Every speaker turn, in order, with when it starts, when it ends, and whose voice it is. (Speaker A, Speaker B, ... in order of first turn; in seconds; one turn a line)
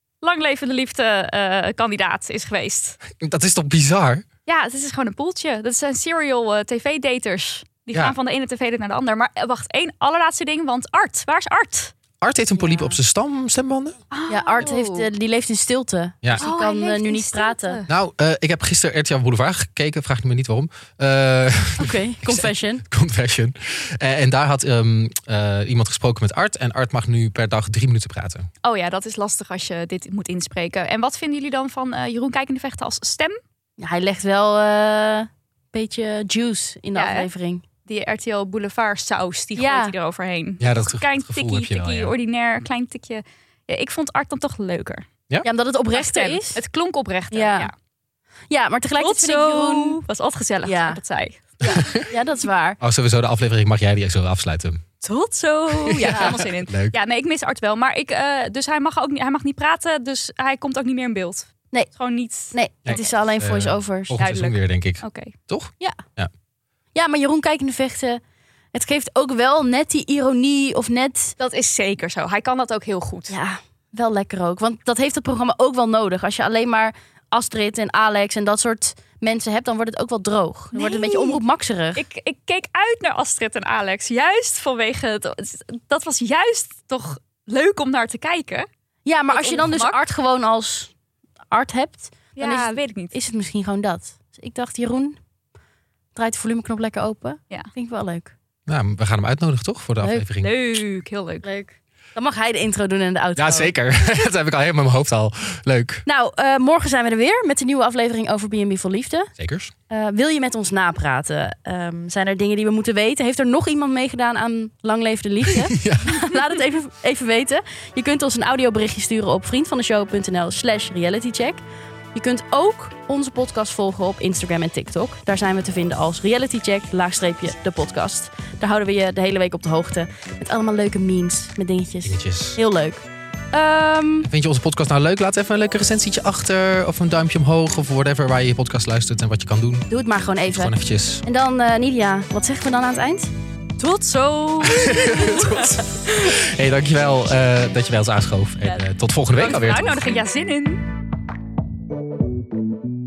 Speaker A: 0.2-3.0
Speaker B: 3.2-4.2
Speaker A: 4.5-11.9
Speaker B: 12.2-14.0
Speaker C: 12.6-13.0
Speaker A: 14.1-15.1
Speaker C: 14.3-17.8
Speaker A: 16.4-17.9
Speaker B: 17.9-28.5
Speaker C: 21.8-22.8
Speaker A: 28.6-33.4
Speaker C: 33.8-37.6
Speaker A: 36.9-37.3
Speaker A: 37.8-45.0
Speaker C: 39.6-39.9
Speaker B: 40.6-42.1
Speaker C: 45.4-46.6
Speaker A: 45.9-47.7
Speaker C: 47.3-47.7
Speaker C: 48.5-50.0
Speaker A: 49.0-52.0
Speaker C: 50.6-51.0
Speaker B: 51.6-52.1
Speaker C: 51.6-52.8
Speaker B: 52.8-54.8
Speaker A: 55.0-63.2
Speaker B: 55.8-57.0
Speaker C: 56.0-56.4
Speaker C: 62.5-64.1
Speaker B: 62.8-66.3
Speaker A: 64.2-65.3
Speaker C: 66.9-68.2
Speaker C: 68.7-71.4
Speaker A: 71.4-73.3
Speaker C: 73.3-82.0
Speaker A: 80.7-81.4
Speaker A: 82.0-88.7
Speaker C: 89.0-90.9
Speaker A: 89.3-90.0
Speaker C: 91.5-95.2
Speaker A: 92.3-93.2
Speaker C: 96.1-98.3
Speaker B: 98.7-100.5
Speaker A: 100.4-101.5
Speaker C: 101.4-103.8
Speaker B: 103.4-106.0
Speaker C: 106.0-109.3
Speaker B: 109.4-109.7
Speaker C: 109.9-121.6
Speaker B: 115.5-116.3
Speaker C: 122.1-134.3
Speaker B: 132.0-132.6
Speaker B: 134.2-139.9
Speaker C: 139.9-140.7
Speaker B: 140.4-141.2
Speaker C: 141.2-143.3
Speaker A: 143.8-145.9
Speaker B: 144.6-150.2
Speaker A: 148.6-150.8